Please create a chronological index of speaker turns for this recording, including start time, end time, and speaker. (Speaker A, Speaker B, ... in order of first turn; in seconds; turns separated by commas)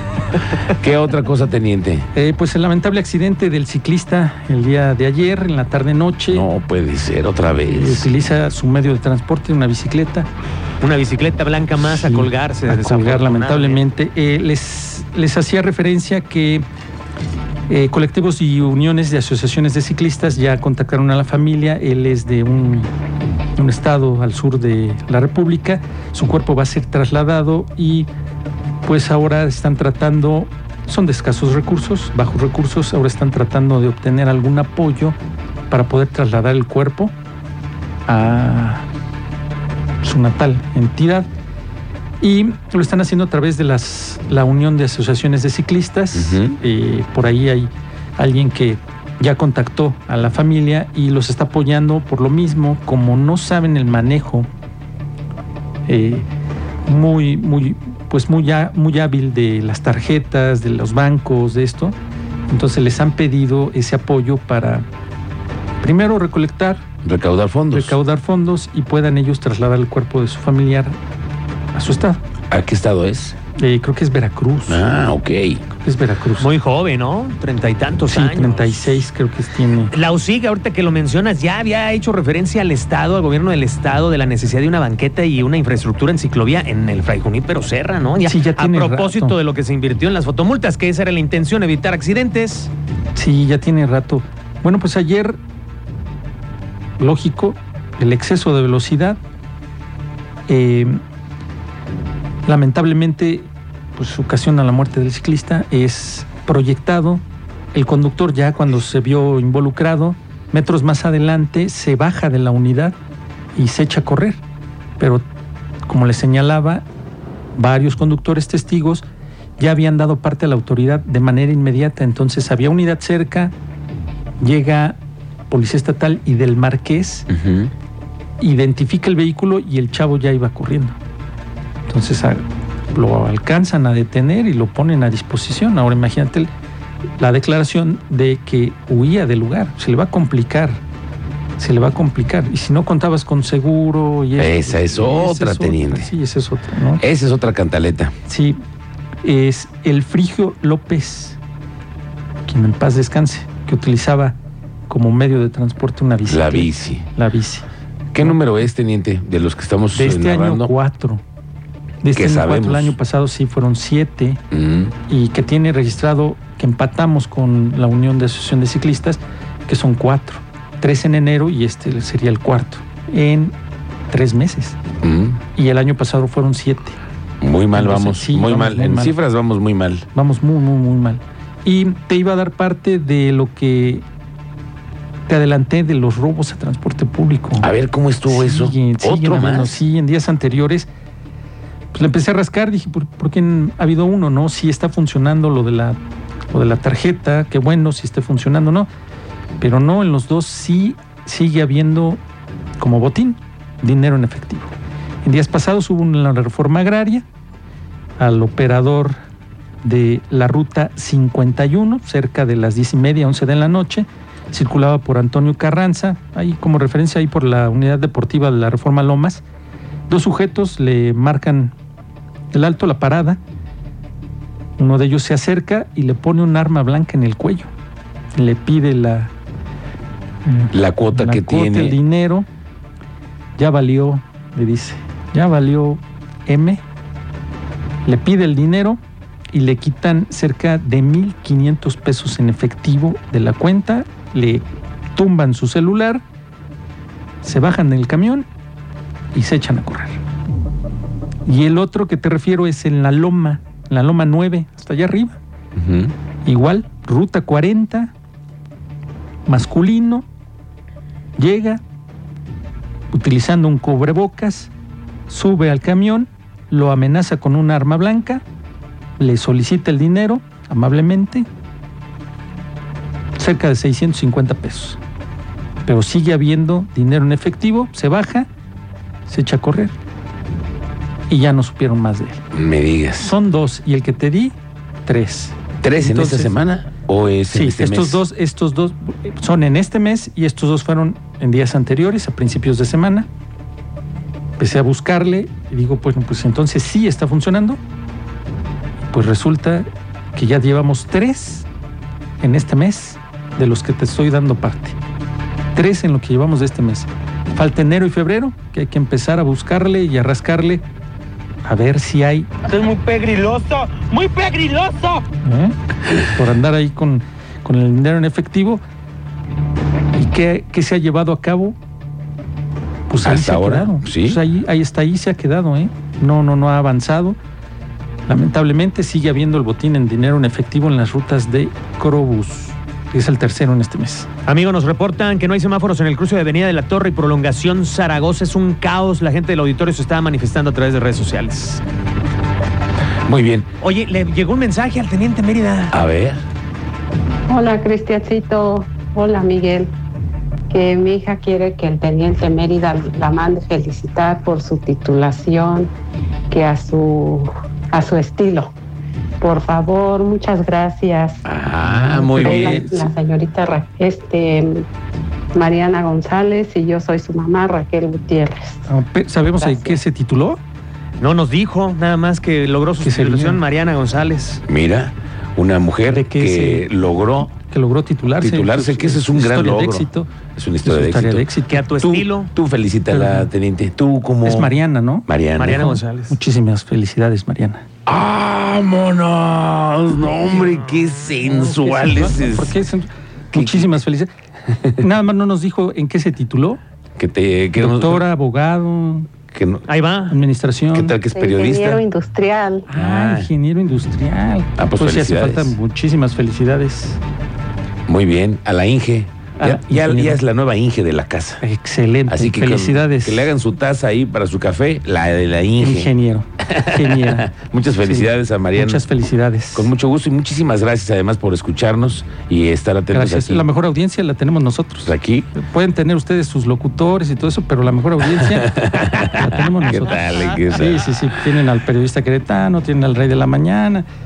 Speaker A: 0.7-2.1, Speaker B: 2.1-6.5, Speaker A: 6.3-8.1, Speaker B: 7.6-10.3, Speaker C: 10.8-13.8, Speaker B: 11.8-16.6, Speaker B: 17.7-22.9, Speaker B: 23.6-28.1, Speaker B: 28.8-35.1, Speaker B: 35.7-37.1, Speaker B: 38.1-38.9, Speaker B: 40.0-41.3, Speaker B: 42.2-54.5, Speaker A: 46.1-46.6, Speaker B: 55.9-56.3, Speaker B: 56.9-61.9, Speaker B: 62.5-64.9, Speaker B: 65.8-66.8, Speaker A: 67.0-68.0, Speaker B: 67.7-71.0, Speaker B: 71.7-72.2, Speaker A: 72.5-73.4, Speaker B: 73.5-74.9, Speaker A: 74.7-75.6, Speaker B: 75.8-76.5, Speaker C: 76.4-79.0, Speaker B: 78.1-79.9, Speaker C: 79.9-92.7, Speaker B: 88.2-89.4, Speaker B: 93.1-95.4, Speaker B: 97.0-99.2, Speaker B: 100.5-101.0, Speaker B: 102.5-113.0, Speaker B: 113.5-114.4, Speaker B: 115.0-115.2, Speaker B: 115.8-116.8, Speaker B: 117.5-119.0, Speaker B: 119.6-123.5, Speaker B: 124.4-125.0, Speaker B: 125.5-127.3, Speaker A: 127.3-127.7, Speaker B: 128.4-131.0, Speaker B: 131.9-136.5, Speaker B: 137.2-140.8, Speaker B: 141.6-147.0, Speaker A: 144.4-146.1, Speaker A: 147.0-148.1, Speaker B: 148.2-148.6, Speaker B: 149.2-151.4, Speaker B: 152.4-154.4, Speaker B: 154.9-157.7, Speaker A: 156.2-157.1, Speaker A: 158.1-160.7, Speaker B: 159.9-161.2, Speaker B: 162.0-164.4, Speaker A: 162.1-162.9, Speaker A: 164.5-164.9, Speaker B: 165.1-173.5, Speaker B: 174.1-174.8, Speaker A: 175.0-175.4, Speaker B: 175.5-177.0, Speaker A: 177.4-180.1, Speaker B: 177.7-179.2, Speaker B: 180.1-184.0, Speaker B: 185.3-187.7, Speaker A: 187.6-189.8, Speaker B: 188.2-190.9, Speaker B: 191.9-196.0, Speaker B: 196.5-198.9, Speaker B: 199.6-202.2, Speaker B: 202.8-207.2, Speaker B: 208.2-209.2, Speaker B: 209.8-219.4, Speaker B: 220.1-221.7, Speaker B: 222.5-223.4, Speaker B: 224.8-227.7, Speaker B: 228.3-229.3, Speaker B: 230.4-232.5, Speaker A: 230.7-231.9, Speaker B: 233.6-236.8, Speaker B: 238.0-239.0, Speaker B: 239.5-246.2, Speaker B: 247.4-248.5, Speaker B: 249.3-250.2, Speaker B: 251.4-255.4, Speaker A: 255.8-256.1, Speaker B: 256.4-258.1, Speaker B: 259.4-260.3, Speaker B: 261.4-261.8, Speaker B: 263.1-264.7, Speaker B: 265.3-268.4, Speaker B: 269.2-271.5, Speaker B: 273.4-275.0, Speaker B: 275.8-278.5, Speaker B: 279.2-279.9, Speaker B: 281.3-282.4, Speaker A: 282.5-283.3, Speaker B: 283.2-286.6, Speaker A: 285.8-288.2, Speaker B: 287.5-293.3, Speaker B: 294.6-297.8, Speaker B: 299.0-301.7, Speaker B: 302.4-305.0, Speaker B: 305.7-310.8, Speaker B: 311.6-312.7, Speaker D: 312.8-315.1, Speaker B: 315.4-318.8, Speaker B: 320.1-321.8, Speaker B: 323.1-327.4, Speaker A: 323.2-324.4, Speaker B: 328.3-334.3, Speaker C: 334.4-341.8, Speaker A: 343.2-343.7, Speaker C: 343.8-345.9, Speaker A: 345.9-346.4, Speaker E: 347.5-349.9, Speaker E: 350.7-355.9, Speaker E: 356.5-358.7, Speaker E: 359.4-361.4, Speaker A: 361.4-362.9, Speaker B: 361.8-363.1, Speaker E: 362.4-364.8, Speaker E: 365.5-368.9, Speaker B: 368.9-370.6, Speaker E: 369.6-370.0, Speaker C: 371.2-374.6, Speaker B: 373.0-373.6, Speaker A: 374.6-377.5, Speaker B: 376.1-376.9, Speaker B: 377.5-380.3, Speaker A: 378.4-384.7, Speaker B: 380.8-381.9, Speaker C: 381.7-382.5, Speaker B: 383.1-383.5, Speaker B: 384.4-387.8, Speaker A: 385.3-385.8, Speaker C: 385.6-386.4, Speaker A: 388.1-392.8, Speaker B: 391.4-394.3, Speaker A: 393.5-394.0, Speaker B: 395.0-396.8, Speaker A: 397.2-398.2, Speaker B: 397.8-399.3, Speaker A: 399.5-399.9, Speaker C: 399.9-400.4, Speaker B: 400.3-401.2, Speaker A: 400.9-402.0, Speaker E: 401.3-402.9, Speaker B: 402.9-407.2, Speaker A: 402.9-403.5, Speaker A: 404.8-405.8, Speaker A: 408.1-411.6, Speaker B: 409.6-410.4, Speaker B: 411.6-413.5, Speaker A: 412.3-419.1, Speaker B: 415.8-417.5, Speaker B: 418.0-419.9, Speaker A: 419.7-423.7, Speaker B: 423.1-434.1, Speaker A: 425.0-425.5, Speaker A: 428.2-431.4